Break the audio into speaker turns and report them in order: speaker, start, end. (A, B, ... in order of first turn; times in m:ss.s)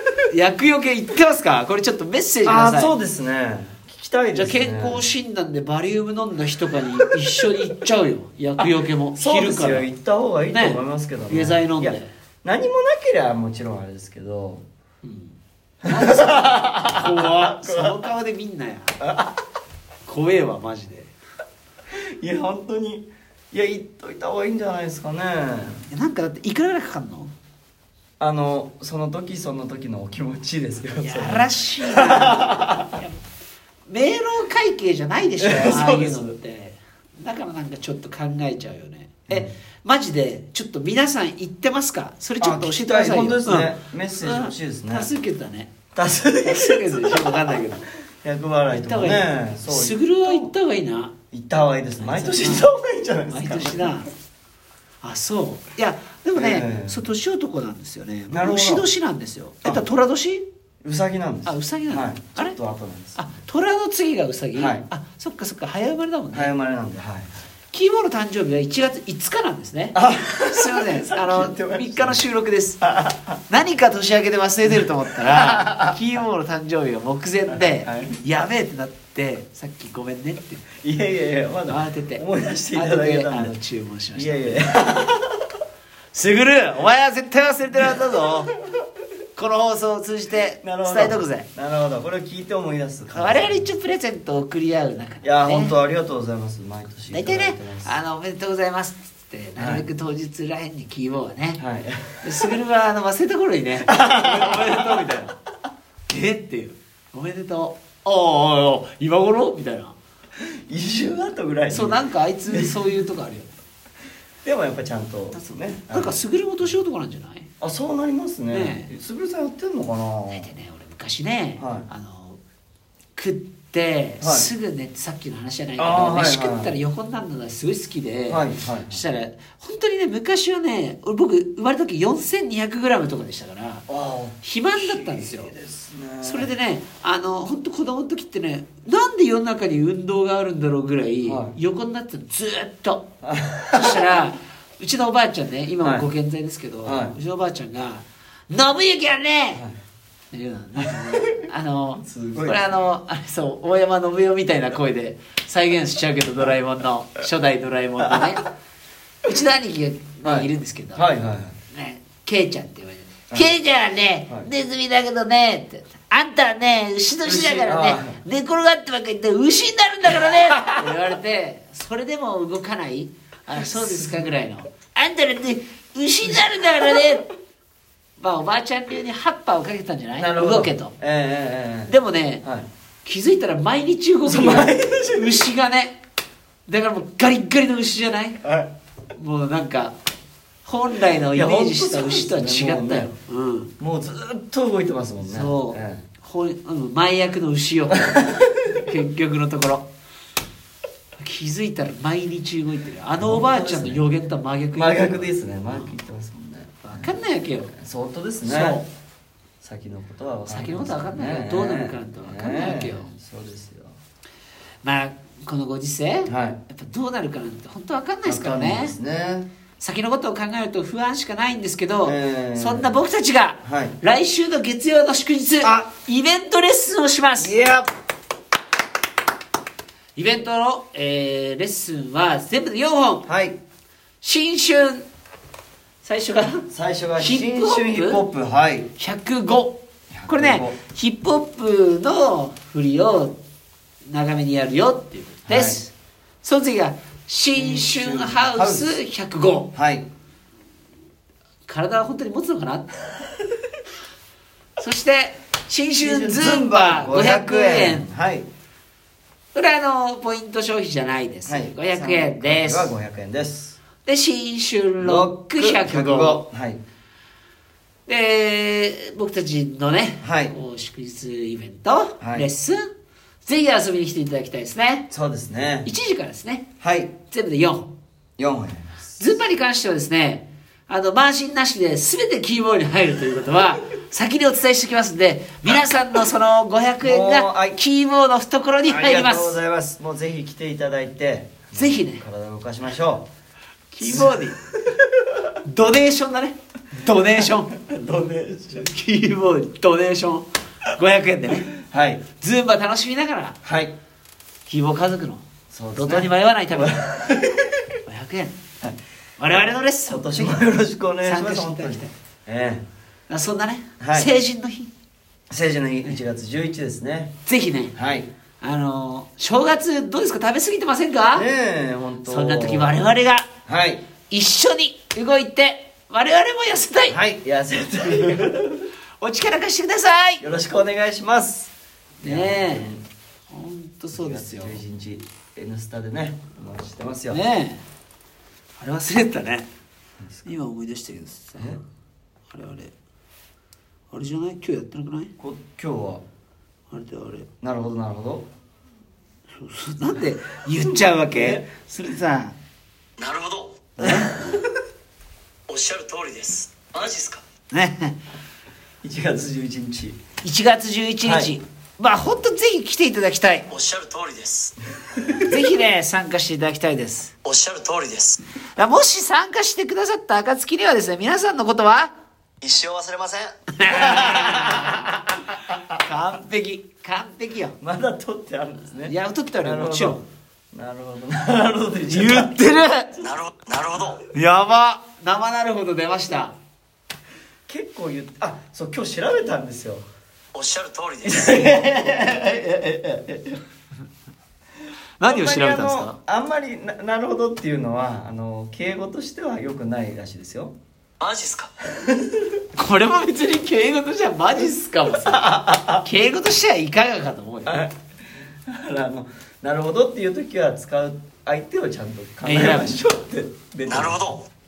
0:00.3-0:02.9 A
0:02.4-0:05.0 B
0:04.3-0:09.9 A
0:09.2-0:14.6 B
0:10.5-0:12.1 A
0:15.0-0:19.0 A
0:15.8-0:18.0 B
0:19.0-0:19.4 B
0:20.0-0:21.1 A
0:22.2-0:25.8 B
0:25.9-0:27.3 A
0:28.2-0:33.0 B
0:31.0-0:33.2 A
0:33.9-0:45.7 A
0:35.4-0:36.4 B
0:42.4-0:45.1 B
0:45.9-0:47.7 B
0:46.4-0:47.8 A
0:48.2-0:50.5 B
0:48.7-0:51.1 A
0:51.3-0:54.0 B
0:52.0-0:52.6 A
0:53.3-0:54.1 A
0:55.0-1:00.4 A
0:56.3-0:57.0 B
0:58.3-0:58.9 B
1:00.8-1:03.3 B
1:01.4-1:02.6 A
1:03.2-1:06.5 A
1:04.5-1:04.8 B
1:06.3-1:07.3 B
1:07.7-1:12.8 A
1:09.9-1:12.2 B
1:12.8-1:13.4 B
1:13.5-1:20.6 A
1:14.7-1:16.0 B
1:17.5-1:18.2 B
1:20.8-1:23.6 B
1:21.7-1:24.7 A
1:24.1-1:25.4 B
1:26.1-1:28.5 A
1:27.8-1:28.4 B
1:29.4-1:31.5 A
1:30.6-1:33.6 B
1:33.1-1:35.7 A
1:35.2-1:38.0 B
1:37.1-1:41.6 A
1:39.6-1:39.9 B
1:41.6-1:42.6 B
1:42.2-1:45.3 A
1:43.8-1:45.2 B
1:46.1-1:49.9 A
1:50.4-1:52.8 B
1:51.7-1:53.6 A
1:54.4-1:56.2 B
1:55.3-1:57.5 A
1:57.6-2:00.5 B
1:58.5-1:58.9 A
2:00.3-2:02.4 A
2:01.6-2:01.9 B
2:03.2-2:13.9 A
2:04.2-2:04.5 B
2:05.8-2:06.7 B
2:08.3-2:09.0 B
2:13.9-2:16.5 B
2:14.4-2:15.5 A
2:16.2-2:23.1 A
2:21.2-2:21.6 B
2:23.2-2:24.1 B
2:23.7-2:29.6 A
2:25.8-2:26.1 B
2:26.8-2:27.2 B
2:30.3-2:38.5 A
2:31.0-2:31.4 B
2:32.0-2:32.7 B
2:39.2-2:41.0 A
2:40.2-2:41.6 B
2:41.7-2:57.3 A
2:47.2-2:48.2 B
2:58.2-3:00.9 A
3:00.2-3:02.7 B
3:01.9-3:02.4 A
3:03.0-3:06.0 A
3:04.2-3:05.5 B
3:06.7-3:08.4 A
3:08.4-3:08.7 B
3:09.1-3:10.0 A
3:10.6-3:13.7 A
3:11.3-3:13.1 B
3:13.8-3:16.0 B
3:15.2-3:19.9 A
3:18.0-3:18.8 B
3:21.2-3:25.9 A
3:23.2-3:24.0 B
3:24.7-3:28.8 B
3:26.8-3:27.7 A
3:28.4-3:28.8 A
3:29.6-3:34.0 B
3:30.5-3:33.1 A
3:34.8-3:38.9 A
3:36.3-3:36.6 B
3:38.2-3:39.5 B
3:39.8-3:47.5 A
3:42.0-3:43.0 B
3:43.6-3:44.0 B
3:45.6-3:45.9 B
3:47.4-3:47.9 B
3:50.2-3:53.3 A
3:53.3-3:53.6 B
3:54.2-3:55.1 A
3:56.0-3:58.2 A
3:56.7-3:58.9 B
3:59.0-4:03.4 A
4:00.1-4:00.8 B
4:04.0-4:05.9 A
4:05.4-4:05.8 B
4:06.4-4:09.7 A
4:07.5-4:09.0 B
4:09.7-4:10.0 B
4:11.7-4:13.1 A
4:14.8-4:18.1 A
4:16.0-4:18.5 B
4:19.5-4:22.9 A
4:21.5-4:23.8 B
4:24.0-4:26.4 A
4:25.0-4:26.8 B
4:28.1-4:32.9 A
4:30.2-4:30.5 B
4:32.2-4:32.5 B
4:33.4-4:35.1 A
4:35.1-4:35.9 B
4:35.8-4:36.7 A
4:36.8-4:37.1 B
4:37.3-4:37.9 A
4:38.4-4:39.3 B
4:39.2-4:49.6 A
4:47.0-4:47.8 B
4:48.8-4:53.3 B
4:51.7-4:52.2 A
4:53.9-4:54.6 A
4:54.0-4:55.4 B
4:55.6-4:57.7 A
4:57.2-4:58.9 B
4:58.7-5:01.7 A
5:01.7-5:02.2 B
5:02.4-5:03.6 A
5:03.6-5:03.9 B
5:04.7-5:05.4 A
5:05.7-5:07.9 B
5:05.9-5:07.0 A
5:08.0-5:08.5 A
5:09.4-5:10.6 A
5:09.5-5:12.8 B
5:11.2-5:12.1 A
5:13.3-5:14.9 A
5:14.0-5:14.3 B
5:15.5-5:17.3 B
5:17.4-5:18.0 A
5:18.0-5:18.3 B
5:18.6-5:21.5 A
5:21.3-5:23.0 B
5:22.2-5:23.5 A
5:23.6-5:24.0 B
5:24.3-5:27.2 A
5:27.1-5:28.9 B
5:29.2-5:30.4 A
5:30.4-5:33.0 B
5:32.2-5:32.9 A
5:33.5-5:34.8 A
5:34.1-5:37.4 B
5:37.3-5:37.8 A
5:38.8-5:39.7 A
5:40.2-5:40.5 B
5:40.4-5:41.8 A
5:42.5-5:42.9 A
5:44.1-5:45.3 A
5:45.4-5:46.2 B
5:46.9-5:47.5 A
5:47.6-5:48.5 B
5:49.5-5:52.5 A
5:50.8-5:51.6 B
5:53.2-5:53.9 C
5:54.0-5:54.7 B
5:54.0-5:54.5 A
5:55.7-5:57.4 C
5:57.7-5:58.2 A
5:59.0-6:00.2 B
6:00.4-6:03.7 A
6:01.2-6:01.5 B
6:03.7-6:04.8 C
6:05.2-6:05.6 B
6:05.4-6:07.3 A
6:07.4-6:08.4 C
6:08.8-6:12.1 A
6:12.6-6:15.8 B
6:12.6-6:13.4 C
6:13.7-6:15.3 A
6:15.9-6:17.8 A
6:17.8-6:20.2 B
6:19.0-6:20.2 A
6:20.7-6:22.6 B
6:22.1-6:23.1 A
6:23.1-6:23.4 B
6:23.2-6:24.2 C
6:24.2-6:26.6 A
6:27.7-6:30.0 B
6:30.5-6:31.5 C
6:31.2-6:33.6 B
6:35.2-6:36.2 A
6:35.2-6:40.7 B
6:41.2-6:41.7 C
6:41.9-6:42.5 B
6:42.7-6:47.8 A
6:45.0-6:46.0 B
6:47.6-6:48.0 B
6:48.6-6:54.4 B
6:52.4-6:53.0 A
6:53.9-6:54.4 C